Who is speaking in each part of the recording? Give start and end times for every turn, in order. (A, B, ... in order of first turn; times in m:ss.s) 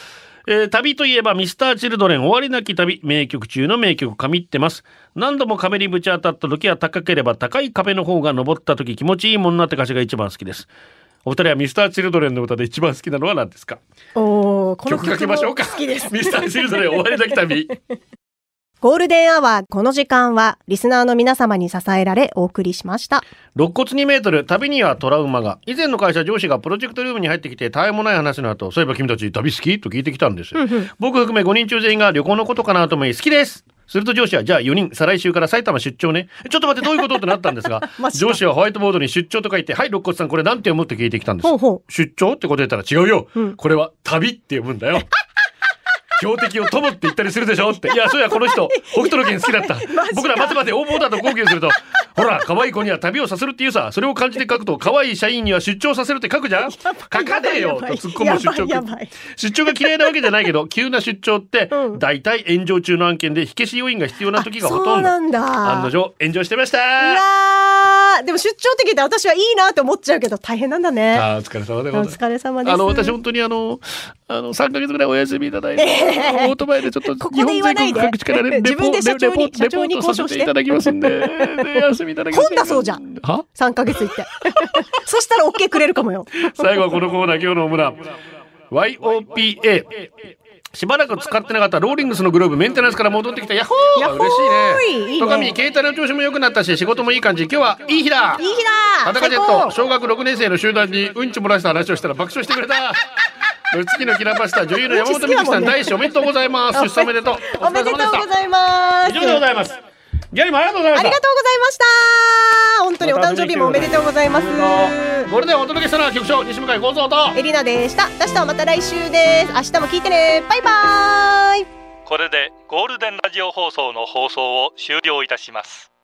0:00.5-0:10.7 A
0:11.2-0:13.8 A
0:14.2-0:16.8 B
0:14.9-0:17.7 A
0:18.8-0:23.2 B
0:23.6-0:45.1 A
0:30.6-0:30.9 B
0:37.9-0:38.4 B
0:41.4-0:41.8 B
0:46.2-1:07.2 A
0:48.4-0:51.3 B
0:56.6-0:59.1 B
1:01.7-1:02.0 B
1:04.4-1:05.9 B
1:07.0-1:11.3 B
1:11.1-1:23.5 A
1:11.9-1:13.2 B
1:15.8-1:16.6 B
1:17.2-1:20.5 B
1:21.0-1:21.5 B
1:22.3-1:26.5 B
1:26.4-1:28.1 A
1:28.7-1:30.1 A
1:30.7-1:38.5 A
1:34.0-1:35.5 B
1:38.4-1:39.8 B
1:39.0-1:43.0 A
1:43.7-1:48.3 A
1:44.9-1:45.9 B
1:46.7-1:49.4 B
1:49.1-1:49.8 A
1:50.3-1:51.2 A
1:51.0-1:55.3 B
1:53.0-1:57.4 A
1:57.3-2:01.7 B
2:02.1-2:05.9 C